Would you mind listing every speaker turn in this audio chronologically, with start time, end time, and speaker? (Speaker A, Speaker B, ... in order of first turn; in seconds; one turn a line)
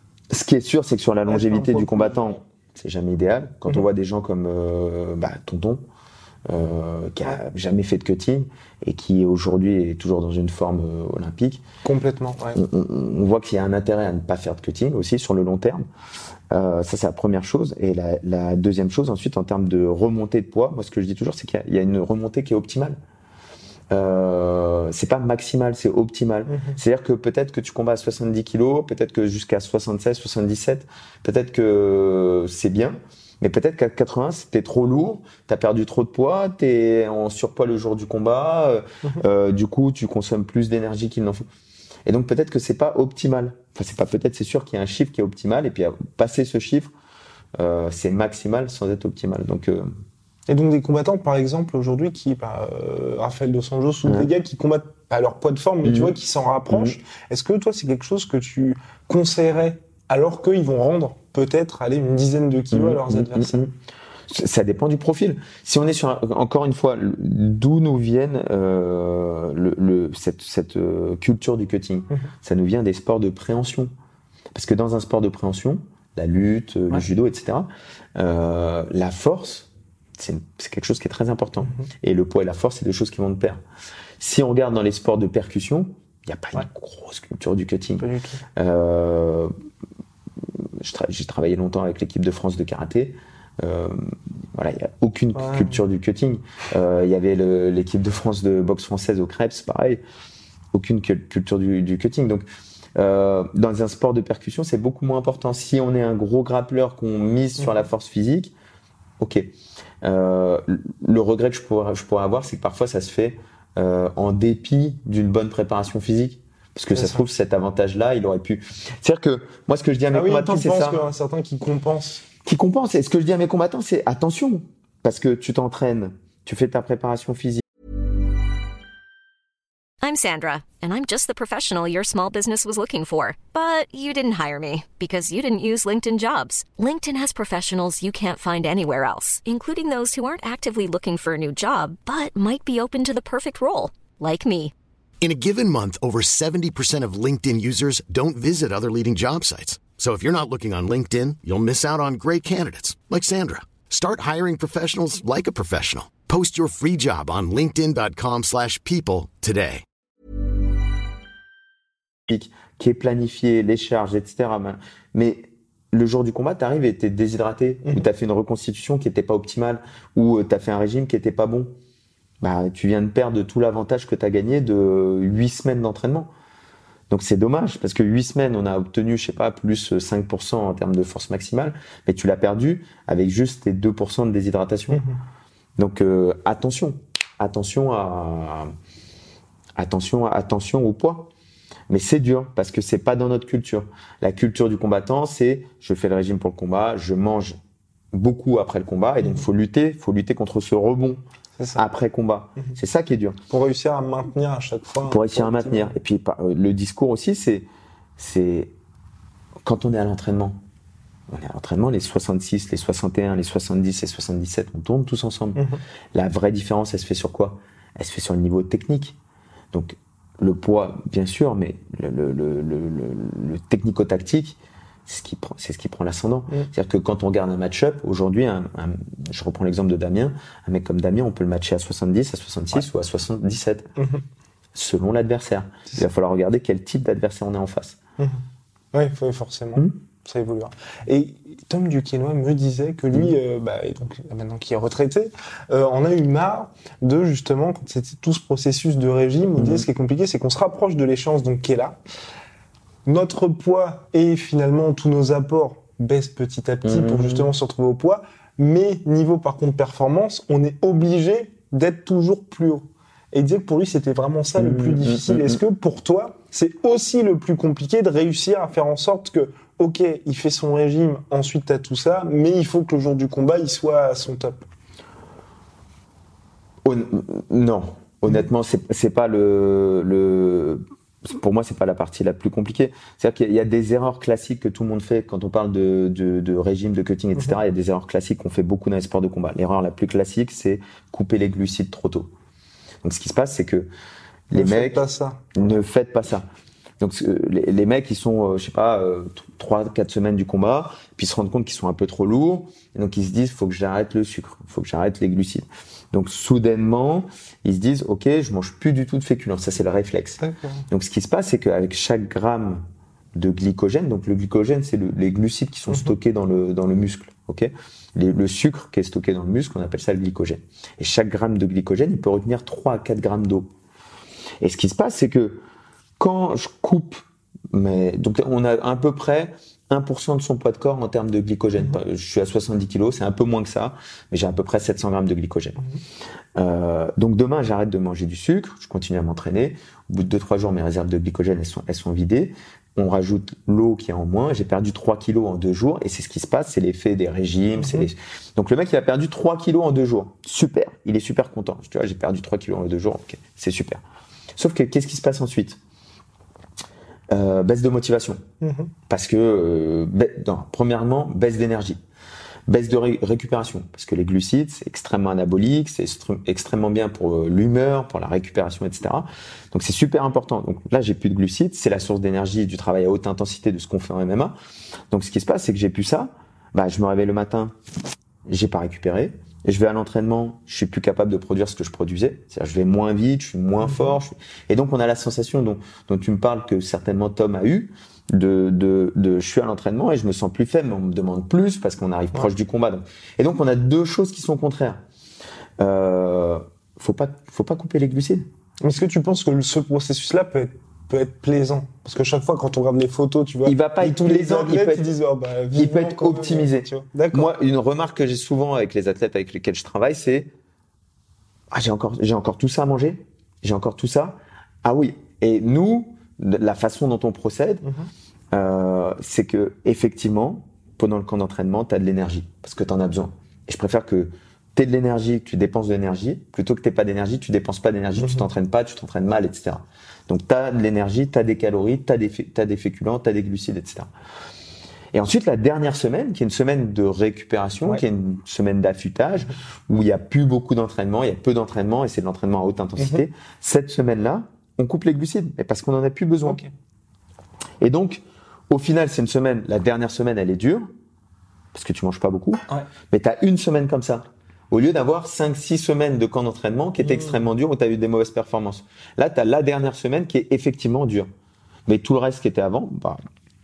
Speaker A: 0.3-5.8
Speaker B: 1.3-2.4
Speaker A: 6.5-11.6
Speaker B: 11.8-12.6
Speaker A: 12.5-15.8
Speaker A: 16.5-23.0
Speaker A: 23.9-41.5
Speaker B: 26.5-26.8
Speaker A: 42.0-46.9
Speaker A: 47.5-49.9
Speaker B: 50.5-63.6
Speaker A: 54.0-54.3
Speaker A: 55.8-56.1
Speaker A: 56.7-57.0
Speaker A: 62.7-63.7
Speaker A: 64.3-73.9
Speaker A: 74.5-83.6
Speaker A: 84.2-89.5
Speaker B: 88.0-88.4
Speaker A: 90.8-100.0
Speaker B: 95.3-95.8
Speaker A: 100.7-108.5
Speaker A: 109.2-109.5
Speaker A: 110.0-121.0
Speaker B: 116.9-117.2
Speaker B: 120.1-122.2
Speaker A: 122.4-127.6
Speaker C: 130.0-144.7
Speaker D: 145.2-159.8
Speaker A: 162.3-171.7
Speaker A: 172.4-176.3
Speaker A: 177.1-185.0
Speaker B: 184.9-185.2
Speaker A: 185.8-188.7
Speaker A: 189.8-191.3
Speaker A: 191.9-197.6
Speaker A: 198.1-201.2
Speaker B: 201.6-201.8
Speaker A: 201.8-203.4
Speaker B: 203.5-205.9
Speaker A: 205.0-208.7
Speaker A: 209.6-210.6
Speaker A: 211.3-219.2
Speaker A: 219.7-233.9
Speaker A: 234.7-238.0
Speaker B: 238.9-252.0
Speaker A: 249.6-249.9
Speaker B: 253.1-274.6
Speaker A: 256.8-257.5
Speaker A: 264.6-265.6
Speaker A: 276.8-292.3
Speaker A: 293.0-293.9
Speaker A: 294.5-296.5
Speaker B: 294.5-295.8
Speaker A: 297.0-312.8
Speaker B: 310.4-310.8
Speaker A: 313.3-323.7
Speaker A: 324.6-325.6
Speaker A: 326.2-335.8
Speaker A: 336.5-354.0
Speaker B: 347.8-348.1
Speaker A: 354.6-355.8
Speaker A: 357.3-358.4
Speaker B: 358.6-358.9
Speaker A: 359.1-362.0
Speaker A: 362.7-374.5
Speaker A: 375.1-377.7
Speaker A: 378.5-395.0
Speaker A: 395.8-398.5
Speaker B: 398.8-407.5
Speaker A: 403.6-405.1
Speaker A: 405.7-410.5
Speaker A: 411.7-417.8
Speaker B: 417.8-418.1
Speaker A: 418.5-434.1
Speaker A: 435.1-446.6
Speaker B: 443.0-443.2
Speaker B: 446.4-446.7
Speaker A: 447.8-450.9
Speaker A: 451.7-461.3
Speaker B: 457.0-457.4
Speaker A: 461.9-463.2